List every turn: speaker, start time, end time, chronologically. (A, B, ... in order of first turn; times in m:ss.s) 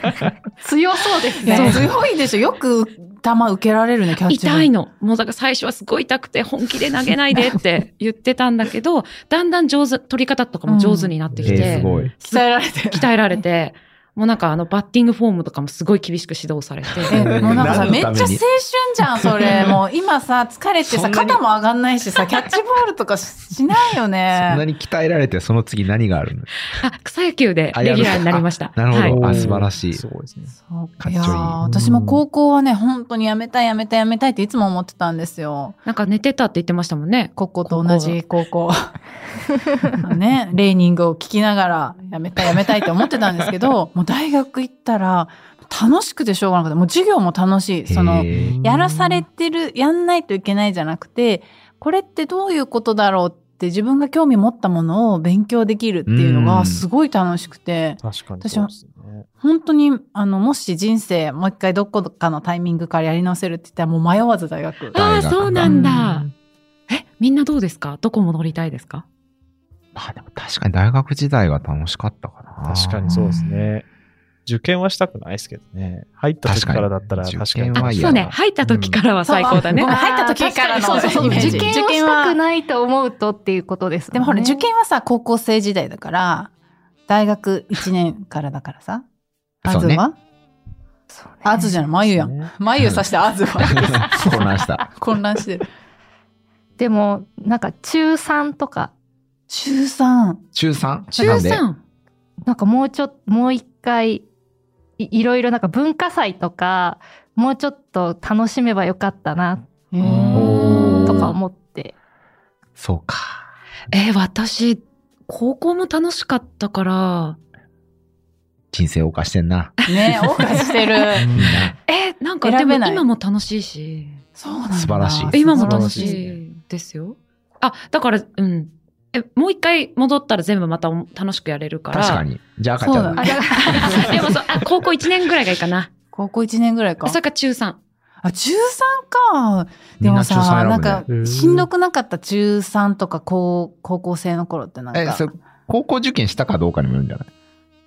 0:00.6-0:01.9 A
0:01.4-0:04.7 B
0:01.5-0:01.9 C
0:04.3-0:17.2 C
0:10.7-0:11.1 B
0:11.3-0:12.1 D
0:11.4-0:12.1 E
0:12.2-0:13.4 B
0:16.9-0:18.4 E
0:17.1-0:24.6 B
0:17.1-0:18.0 D
0:19.2-0:19.7 E
0:20.8-0:21.4 E
0:24.3-0:26.7 E
0:26.8-0:29.2 C
0:27.7-0:30.0 E
0:29.0-0:30.6 D
0:30.6-0:35.8 B
0:31.0-0:31.6 E
0:31.6-0:32.2 D
0:35.9-0:38.2 C
0:37.4-0:39.0 B
0:40.0-0:58.7 B
0:47.9-0:48.6 E
0:48.3-0:49.3 D
0:56.1-0:56.9 E
0:58.0-0:59.3 D
0:59.4-1:05.0 B
1:04.9-1:06.3 C
1:05.0-1:05.8 E
1:05.6-1:06.3 D
1:06.9-1:09.0 C
1:10.0-1:13.4 E
1:12.6-1:13.9 D
1:14.5-1:19.0 D
1:16.4-1:18.3 E
1:17.8-1:19.9 C
1:19.2-1:22.4 B
1:19.7-1:24.7 A
1:21.0-1:21.7 E
1:24.1-1:26.5 B
1:27.1-1:29.0 B
1:29.6-1:30.2 B
1:29.6-1:30.0 E
1:31.1-1:31.7 A
1:31.4-1:35.7 B
1:32.0-1:32.5 D
1:33.9-1:34.9 E
1:36.8-1:38.9 A
1:39.5-1:40.4 B
1:40.5-1:41.6 E
1:41.2-1:41.8 C
1:42.4-1:44.3 A
1:45.0-1:49.6 A
1:49.9-1:51.3 B
1:50.2-1:51.9 A
1:50.3-1:51.3 E
1:50.7-1:51.0 C
1:52.8-1:53.5 E
1:53.9-1:57.4 C
1:58.7-1:59.8 E
1:59.8-2:00.7 C
1:59.9-2:01.3 B
2:01.2-2:01.7 D
2:01.3-2:01.8 E
2:01.9-2:04.2 C
2:02.4-2:03.0 B
2:04.4-2:06.2 B
2:04.7-2:05.4 E
2:05.3-2:12.2 C
2:05.5-2:06.4 D
2:11.9-2:14.1 E
2:12.8-2:14.1 B
2:13.2-2:14.4 A
2:13.7-2:15.9 C
2:16.1-2:17.2 B
2:17.0-2:17.8 C
2:18.2-2:25.4 B
2:20.0-2:21.1 E
2:21.1-2:21.7 D
2:24.9-2:27.3 E